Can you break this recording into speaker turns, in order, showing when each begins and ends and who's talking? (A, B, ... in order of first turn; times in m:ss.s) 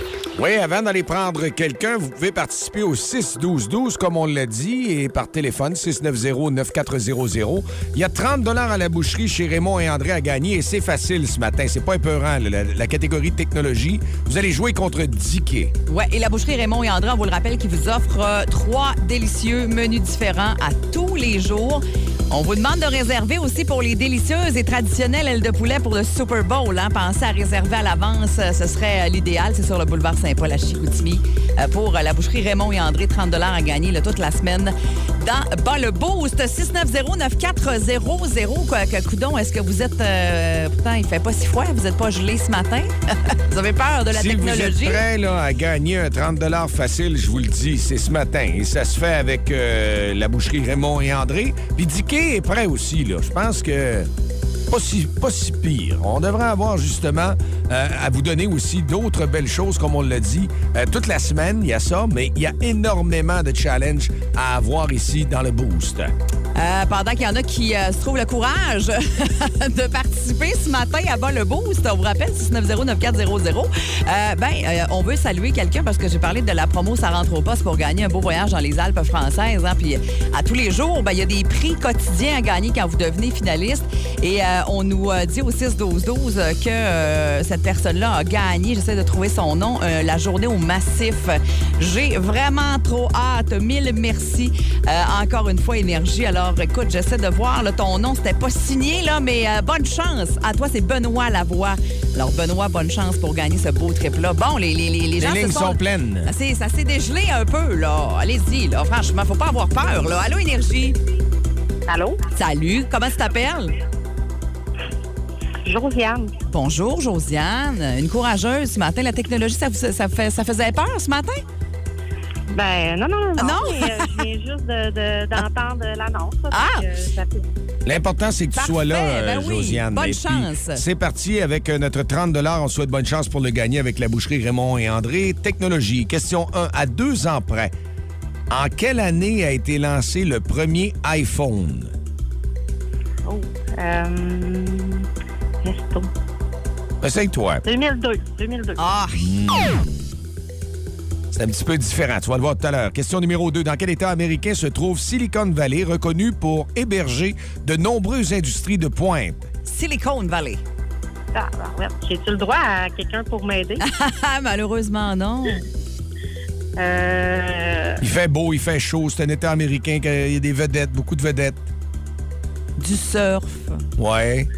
0:00.4-0:15.7 A
0:15.9-0:45.0 B
0:44.1-0:54.1 A
0:54.7-1:06.1 A
1:06.6-1:51.0 B
1:45.2-1:46.3 A
1:51.9-1:52.2 C
1:52.4-1:53.7 B
1:55.6-1:56.3 C
1:56.5-2:01.4 B
2:02.5-2:07.4 C
2:03.4-2:04.2 B
2:06.5-2:06.9 B
2:07.9-2:17.7 A
2:08.6-2:10.8 B
2:18.5-2:21.9 A
2:23.2-2:25.1 C
2:25.6-2:26.1 C
2:27.0-2:27.6 A
2:27.7-2:28.9 C
2:28.8-2:29.3 B
2:29.2-2:29.8 A
2:31.3-2:39.5 A
2:39.7-2:40.6 B
2:41.3-2:43.8 C
2:43.8-2:45.6 B
2:46.8-2:48.0 C
2:48.0-2:51.7 A
2:52.8-2:53.8 B
2:54.0-2:54.5 A